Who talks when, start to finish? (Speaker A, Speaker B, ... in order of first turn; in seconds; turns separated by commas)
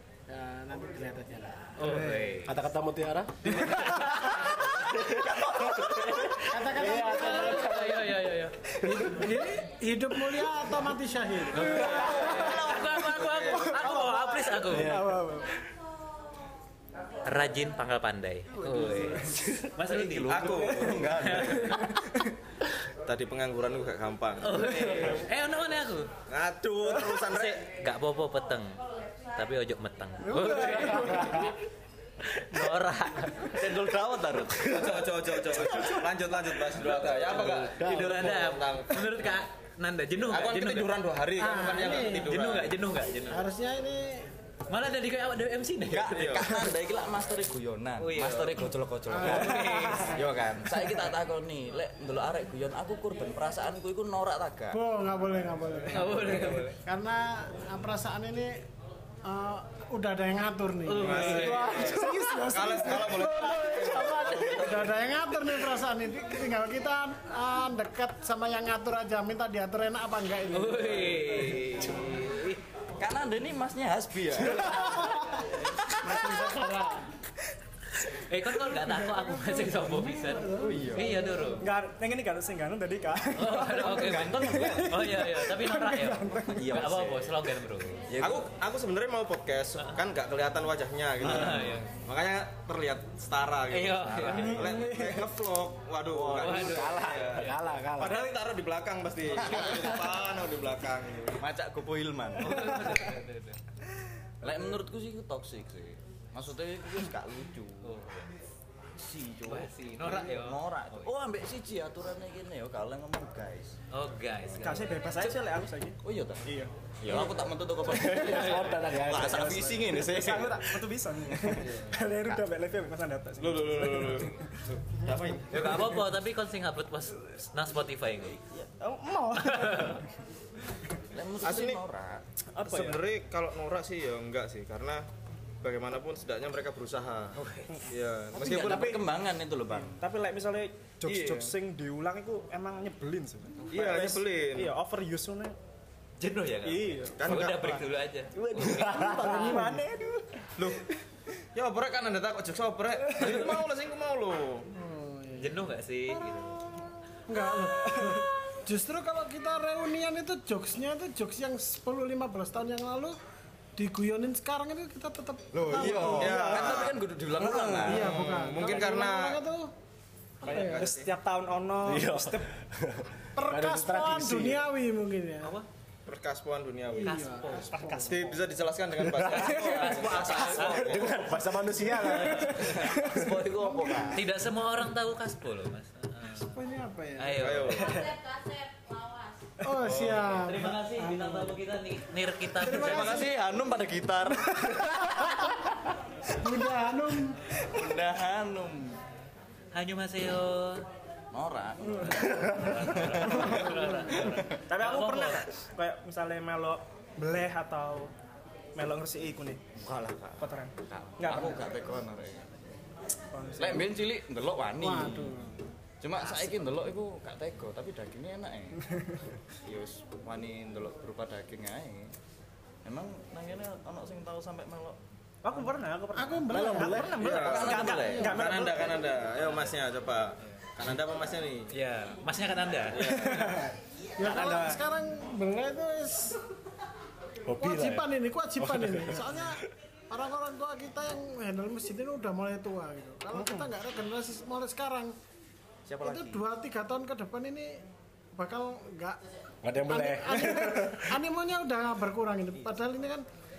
Speaker A: 0.3-1.7, Speaker B: 1.8-2.6, Speaker C: 1.8-2.3, Speaker D: 2.5-8.1, Speaker B: 3.8-4.8, Speaker E: 4.5-6.7, Speaker A: 6.5-8.1, Speaker B: 7.3-8.8, Speaker A: 8.8-12.1, Speaker B: 11.5-15.0, Speaker F: 11.6-14.2, Speaker E: 12.0-13.5, Speaker C: 13.7-15.5, Speaker D: 14.7-15.2, Speaker B: 17.3-20.5, Speaker C: 18.6-19.4, Speaker E: 19.7-21.9, Speaker F: 20.3-21.5, Speaker C: 20.5-22.3, Speaker B: 21.2-21.9, Speaker F: 23.1-25.2, Speaker B: 24.4-26.1, Speaker F: 26.3-27.6, Speaker B: 27.2-28.8, Speaker B: 29.4-31.5, Speaker C: 30.4-31.0, Speaker A: 30.5-31.4, Speaker B: 32.3-33.8, Speaker E: 33.5-35.1, Speaker F: 34.6-39.4, Speaker E: 36.9-37.4, Speaker B: 37.2-41.0, Speaker D: 37.8-38.1, Speaker F: 40.3-42.8, Speaker A: 41.4-42.3, Speaker B: 41.8-43.5, Speaker A: 43.3-44.2, Speaker B: 44.7-46.6, Speaker E: 45.9-54.8, Speaker F: 46.1-46.5, Speaker B: 48.0-50.2, Speaker A: 49.1-50.1, Speaker A: 54.7-58.6, Speaker B: 55.9-56.8, Speaker A: 59.2-61.6, Speaker B: 60.9-61.9, Speaker F: 61.0-65.1, Speaker C: 61.3-63.6, Speaker D: 61.4-62.4, Speaker D: 63.1-64.7, Speaker A: 64.4-71.7, Speaker B: 70.5-72.6, Speaker E: 73.0-76.3, Speaker A: 76.0-77.1, Speaker B: 78.0-81.6, Speaker A: 79.2-81.6, Speaker E: 80.6-81.2, Speaker C: 81.6-86.8, Speaker B: 83.3-88.1, Speaker E: 83.8-85.1, Speaker E: 86.5-87.4, Speaker E: 88.1-88.5, Speaker F: 88.2-101.4, Speaker B: 91.2-91.8, Speaker B: 93.7-94.8, Speaker E: 94.2-94.5, Speaker C: 94.3-95.4, Speaker E: 96.1-97.0, Speaker B: 96.3-97.4, Speaker D: 96.6-98.3, Speaker E: 99.4-99.9, Speaker E: 101.4-103.2, Speaker B: 102.4-103.6, Speaker E: 104.4-108.0, Speaker B: 107.8-108.3, Speaker E: 109.0-113.8, Speaker B: 109.5-111.1, Speaker B: 113.9-115.3, Speaker C: 114.5-116.7, Speaker E: 116.0-116.5, Speaker E: 117.0-120.8, Speaker D: 117.9-119.9, Speaker C: 120.0-124.3, Speaker F: 123.4-126.0, Speaker E: 125.5-126.0, Speaker B: 125.5-128.4, Speaker C: 128.5-130.0, Speaker B: 129.4-130.0, Speaker E: 131.1-132.2, Speaker F: 131.4-131.8, Speaker C: 132.5-133.0, Speaker F: 132.6-135.1, Speaker F: 135.6-137.4, Speaker B: 137.3-137.9, Speaker F: 137.9-139.0, Speaker E: 138.3-140.0, Speaker C: 138.5-139.0, Speaker C: 139.9-145.6, Speaker F: 141.0-141.6, Speaker F: 143.7-144.8, Speaker B: 146.2-149.4, Speaker C: 146.6-147.2, Speaker F: 147.2-147.8, Speaker C: 148.4-150.8, Speaker D: 148.5-149.8, Speaker F: 151.6-154.7, Speaker C: 153.1-153.4, Speaker A: 154.7-155.7, Speaker B: 155.4-156.7, Speaker A: 157.3-163.2, Speaker C: 157.8-158.2, Speaker A: 163.8-166.5, Speaker E: 165.5-168.2, Speaker F: 165.7-167.0, Speaker C: 165.9-166.7, Speaker C: 167.4-167.8, Speaker F: 167.8-169.4, Speaker A: 167.8-169.7, Speaker A: 170.4-170.9, Speaker F: 170.4-171.1, Speaker C: 170.5-172.5, Speaker D: 171.8-174.7, Speaker A: 173.3-175.6, Speaker F: 176.1-177.3, Speaker A: 176.9-178.3, Speaker B: 177.1-178.0, Speaker F: 178.0-181.2, Speaker D: 179.0-179.5, Speaker B: 179.3-181.0, Speaker E: 179.9-181.1, Speaker D: 180.6-183.3, Speaker B: 182.1-182.7, Speaker E: 182.4-184.3, Speaker A: 183.6-184.2, Speaker B: 184.1-186.5, Speaker A: 186.4-187.6, Speaker B: 187.2-188.1, Speaker F: 187.4-188.0, Speaker A: 189.6-191.5, Speaker F: 189.8-190.3, Speaker B: 190.4-193.3, Speaker A: 192.6-193.3, Speaker E: 192.7-195.3, Speaker A: 194.7-195.6, Speaker A: 196.4-197.4, Speaker E: 197.6-199.0, Speaker B: 199.7-200.8, Speaker E: 201.3-204.6, Speaker B: 202.0-205.5, Speaker C: 204.7-208.1, Speaker C: 208.8-209.6, Speaker E: 209.8-212.8, Speaker C: 210.4-211.6, Speaker C: 213.3-213.9, Speaker E: 213.6-215.4, Speaker A: 214.8-215.6, Speaker E: 216.0-218.8, Speaker E: 219.6-222.1, Speaker E: 222.8-225.0, Speaker C: 225.4-229.0, Speaker A: 226.2-228.4, Speaker D: 226.5-227.2, Speaker F: 227.2-231.7, Speaker E: 227.2-228.5, Speaker B: 231.7-233.5, Speaker F: 232.9-233.7, Speaker C: 233.2-234.8, Speaker A: 234.2-236.4, Speaker D: 237.5-239.3, Speaker A: 237.6-245.2, Speaker E: 245.9-246.4, Speaker A: 246.0-249.2, Speaker D: 249.6-251.1, Speaker A: 249.9-253.3